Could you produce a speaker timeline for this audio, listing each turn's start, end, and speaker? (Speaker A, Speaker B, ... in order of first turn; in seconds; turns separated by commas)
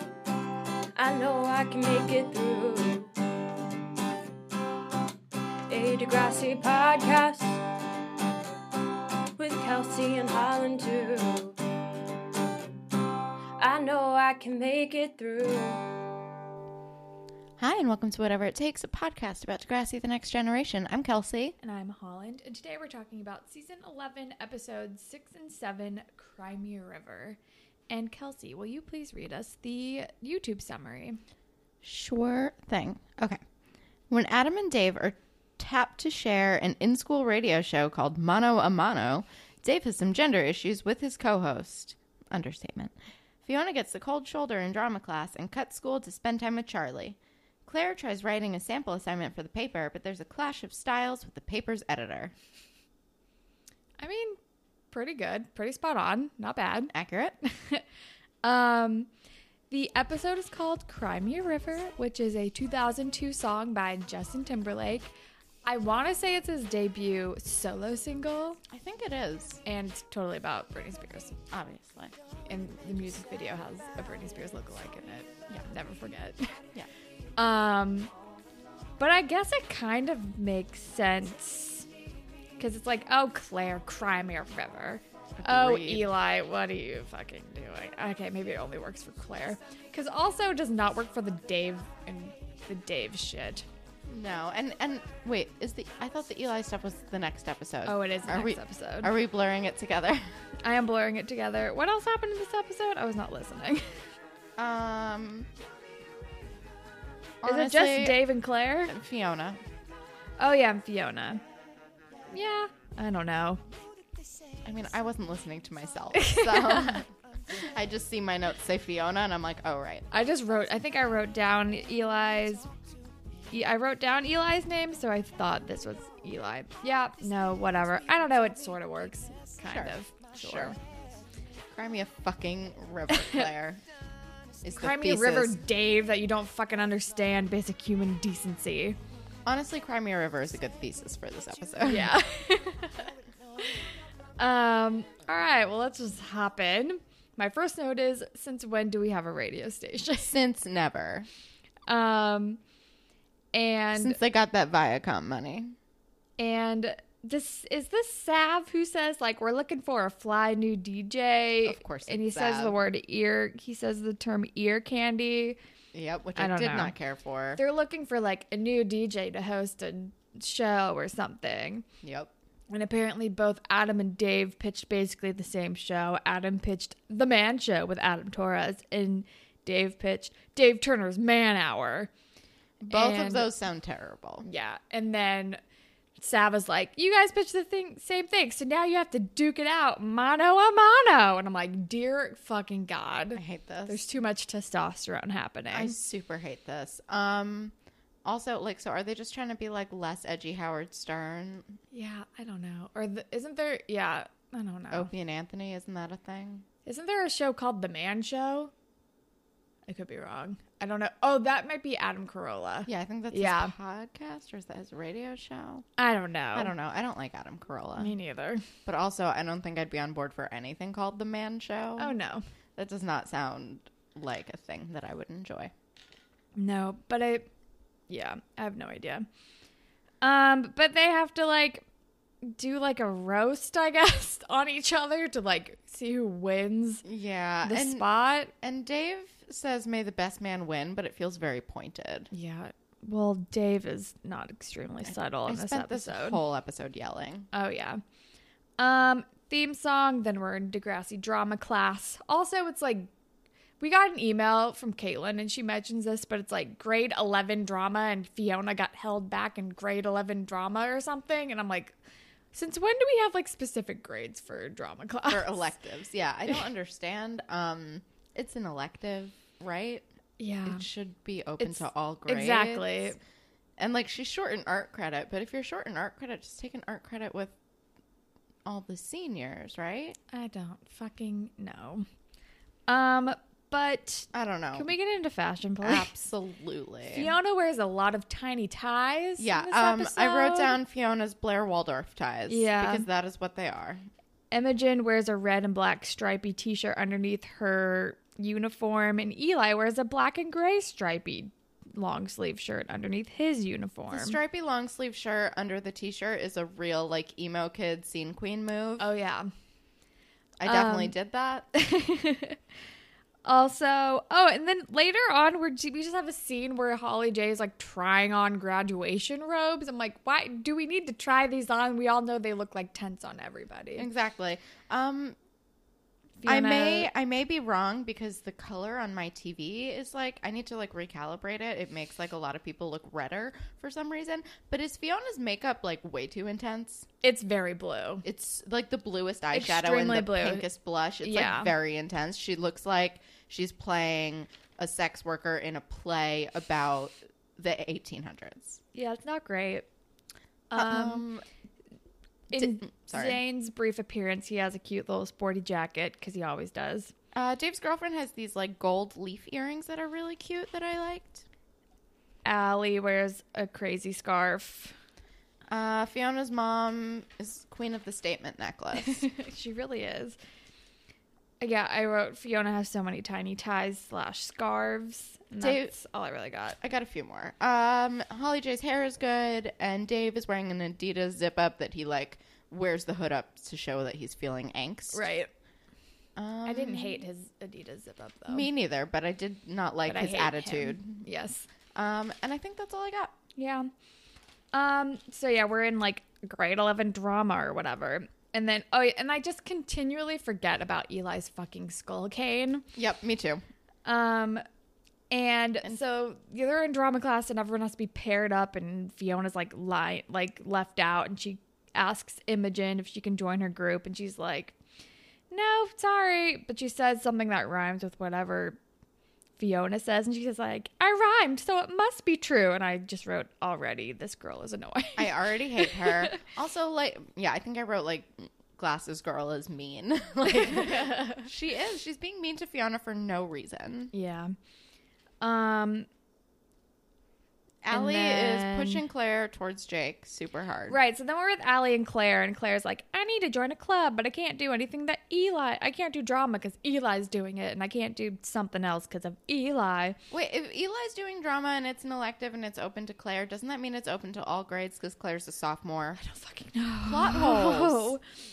Speaker A: 0.9-3.1, Speaker A: 5.7-7.6, Speaker A: 9.4-11.6, Speaker A: 13.6-15.9, Speaker B: 17.6-21.6, Speaker C: 21.6-27.4, Speaker C: 27.9-31.2, Speaker B: 31.8-33.4, Speaker B: 34.1-52.3, Speaker C: 54.0-54.4, Speaker C: 54.9-56.9, Speaker B: 56.9-57.4, Speaker C: 57.5-57.8, Speaker C: 58.4-59.1, Speaker C: 59.7-65.1, Speaker C: 65.7-68.6, Speaker B: 68.7-69.6, Speaker C: 69.7-71.4, Speaker B: 71.5-72.2, Speaker C: 72.5-76.5, Speaker C: 77.4-78.1, Speaker C: 79.0-81.9, Speaker C: 82.6-93.7, Speaker B: 85.4-86.1, Speaker B: 94.1-100.2, Speaker C: 97.9-99.1, Speaker C: 100.6-103.8, Speaker B: 104.6-105.5, Speaker B: 107.4-108.2, Speaker C: 107.5-108.9, Speaker B: 108.9-109.6, Speaker C: 110.4-111.4, Speaker C: 112.3-113.6, Speaker B: 114.6-120.1, Speaker C: 116.1-117.0, Speaker C: 120.1-122.7, Speaker C: 123.5-130.8, Speaker B: 129.7-130.8, Speaker B: 131.7-133.8, Speaker C: 133.1-133.5, Speaker B: 134.6-135.6, Speaker C: 134.8-139.0, Speaker B: 139.5-142.2, Speaker C: 141.8-150.3, Speaker B: 150.2-151.3, Speaker C: 151.9-152.6, Speaker C: 153.5-154.2, Speaker B: 153.9-155.8, Speaker C: 156.4-165.6, Speaker B: 161.7-162.8, Speaker B: 165.9-167.6, Speaker C: 166.4-166.9, Speaker C: 167.6-171.8, Speaker B: 172.0-172.3, Speaker C: 172.7-182.1, Speaker B: 182.8-184.4, Speaker C: 182.9-183.5, Speaker C: 184.4-185.6, Speaker C: 186.2-196.0, Speaker B: 193.3-194.0, Speaker B: 195.7-197.7, Speaker B: 198.2-201.8, Speaker C: 201.9-205.1, Speaker B: 204.9-206.7, Speaker C: 206.9-208.7, Speaker C: 209.9-213.7, Speaker B: 212.9-215.9, Speaker C: 216.0-216.7, Speaker B: 216.6-218.1, Speaker C: 218.0-218.6, Speaker B: 218.9-222.2, Speaker C: 222.0-222.4, Speaker B: 222.8-225.7, Speaker C: 226.6-227.5, Speaker C: 228.1-229.2, Speaker C: 230.2-231.8, Speaker C: 232.5-237.0, Speaker B: 237.0-238.1, Speaker C: 237.6-238.5, Speaker B: 238.6-242.3, Speaker C: 242.3-246.4, Speaker B: 245.1-247.5, Speaker C: 247.5-248.0, Speaker C: 248.8-253.1, Speaker C: 253.8-261.9, Speaker C: 262.5-265.7, Speaker B: 265.3-270.1, Speaker C: 270.4-270.8, Speaker B: 270.6-273.2, Speaker C: 271.6-273.2, Speaker B: 273.8-277.5, Speaker B: 278.7-280.2, Speaker C: 280.3-282.1, Speaker C: 282.9-286.1, Speaker B: 284.3-284.9, Speaker B: 285.8-287.3, Speaker C: 287.1-290.8, Speaker B: 289.4-294.0, Speaker C: 292.5-293.1, Speaker C: 294.5-304.4, Speaker B: 304.1-309.1, Speaker C: 309.0-309.5, Speaker B: 310.6-311.7, Speaker C: 310.6-311.1, Speaker C: 311.7-312.6, Speaker C: 313.4-324.1, Speaker B: 324.0-325.4, Speaker C: 326.4-327.1, Speaker B: 326.5-337.1, Speaker C: 337.2-338.2, Speaker B: 338.2-348.8, Speaker C: 339.5-340.7, Speaker C: 341.2-341.7, Speaker C: 348.9-349.9, Speaker C: 350.7-351.2, Speaker B: 350.7-351.4, Speaker B: 352.5-353.4, Speaker C: 352.5-357.1, Speaker B: 357.3-361.5, Speaker C: 362.5-364.9, Speaker B: 365.7-369.2, Speaker C: 369.0-370.4, Speaker C: 371.6-376.8, Speaker B: 375.6-375.9, Speaker B: 376.8-385.3, Speaker C: 385.1-385.5, Speaker B: 386.4-387.2, Speaker C: 386.7-388.7, Speaker B: 388.5-391.2, Speaker C: 390.1-391.7, Speaker B: 391.9-393.4, Speaker C: 393.6-393.9, Speaker C: 394.7-402.9, Speaker B: 402.9-403.6, Speaker C: 404.1-404.6, Speaker C: 405.3-414.8, Speaker C: 415.5-418.8, Speaker C: 419.6-426.4, Speaker B: 425.2-434.1, Speaker C: 430.5-431.5, Speaker C: 434.1-434.5, Speaker C: 435.4-436.1, Speaker B: 437.8-441.0, Speaker C: 437.9-439.0, Speaker C: 440.9-450.2, Speaker B: 450.3-456.2, Speaker C: 456.2-458.2, Speaker B: 457.0-458.1